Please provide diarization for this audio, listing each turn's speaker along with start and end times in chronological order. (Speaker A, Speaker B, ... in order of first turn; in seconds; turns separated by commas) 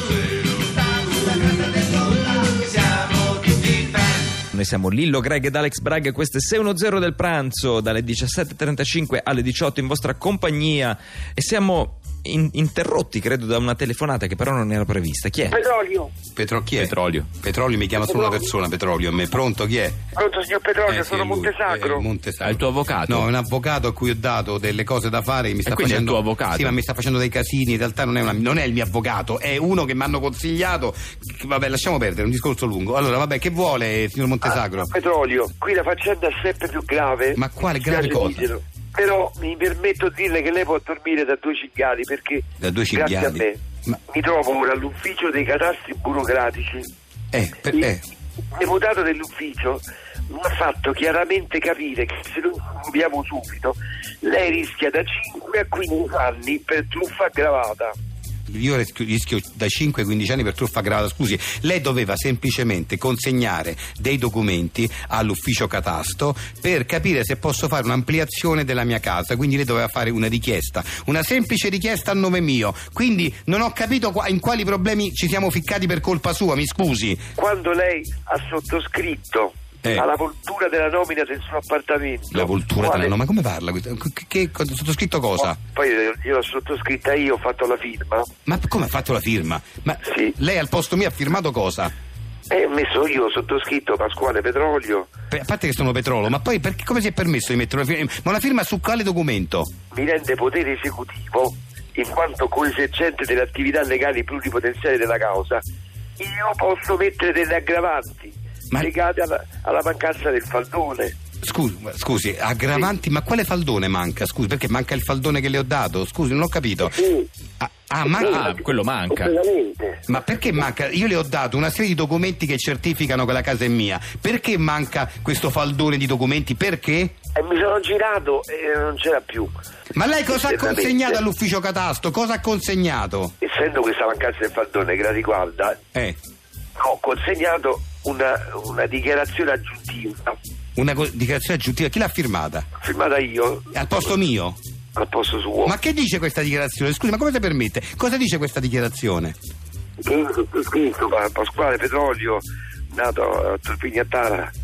Speaker A: 4.5-15.6, Speaker B: 15.5-16.1, Speaker C: 16.4-20.0, Speaker B: 18.0-18.4, Speaker B: 20.2-22.1, Speaker C: 20.9-34.9, Speaker D: 22.4-23.3, Speaker D: 25.7-26.8, Speaker B: 34.5-43.6, Speaker C: 37.4-38.5, Speaker C: 42.6-44.0, Speaker B: 44.1-46.9, Speaker C: 47.3-48.0, Speaker B: 48.6-57.9, Speaker C: 58.5-77.3, Speaker B: 77.4-83.1, Speaker C: 82.3-85.6, Speaker B: 85.8-88.3, Speaker C: 88.5-91.9, Speaker B: 90.1-90.3, Speaker B: 92.5-95.1, Speaker C: 95.3-99.7, Speaker B: 99.9-105.6, Speaker B: 106.2-111.1, Speaker C: 111.4-117.0, Speaker B: 116.8-117.3, Speaker C: 117.6-118.5, Speaker B: 118.1-118.4, Speaker D: 118.3-119.3, Speaker B: 119.1-120.0, Speaker C: 120.1-127.2, Speaker B: 127.3-129.5, Speaker C: 129.9-133.3, Speaker B: 130.3-131.2, Speaker B: 133.4-135.8, Speaker B: 136.8-140.4, Speaker C: 140.8-142.7, Speaker B: 142.8-143.7, Speaker C: 143.7-144.6, Speaker B: 145.0-145.7, Speaker C: 145.7-149.4, Speaker B: 150.0-154.5